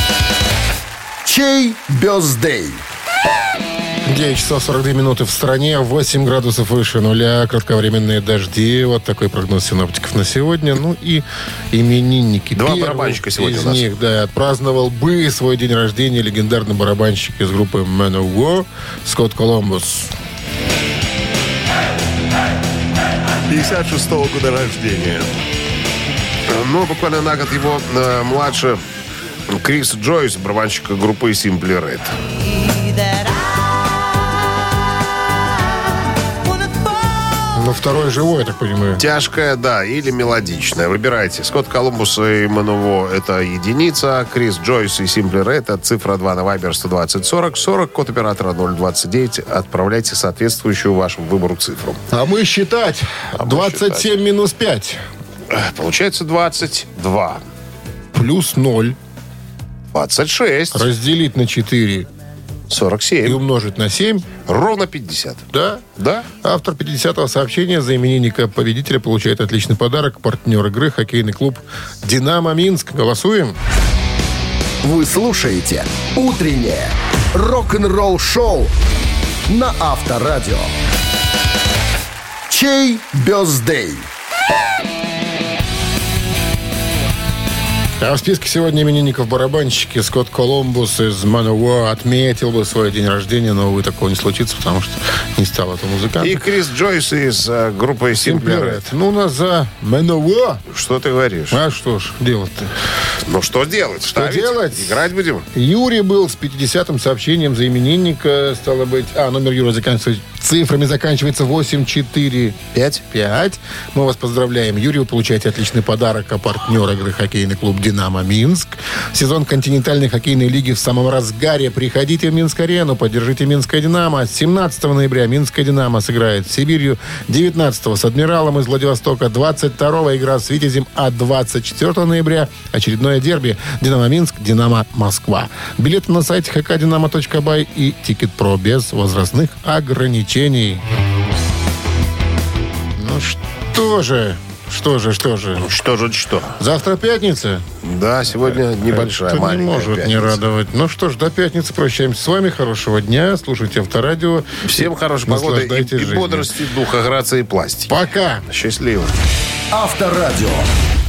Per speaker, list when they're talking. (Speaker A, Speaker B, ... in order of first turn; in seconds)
Speaker A: 1.2-2.8, 74.8-78.7, 79.5-80.7, 82.5-84.1, 159.7-160.7
Speaker B: 4.0-20.1, 37.5-39.0, 52.1-55.0, 58.1-59.0, 60.7-62.1, 63.2-64.3, 65.5-65.8, 66.4-73.6, 88.0-96.4, 98.2-100.6, 101.5-102.7, 104.0-112.6, 113.1-140.8, 143.0-145.7, 146.6-147.6, 148.5-156.5, 157.9-158.4
Speaker C: 12.5-13.8, 23.5-25.3, 26.5-28.8, 29.5-32.1, 39.0-52.0, 53.4-54.1, 55.5-57.4, 59.9-60.9, 62.7-63.4, 64.5-66.3, 96.2-98.8, 100.7-101.6, 103.2-105.5, 112.7-113.0, 145.6-146.6, 147.8-150.4, 154.6-157.9, 158.5-159.1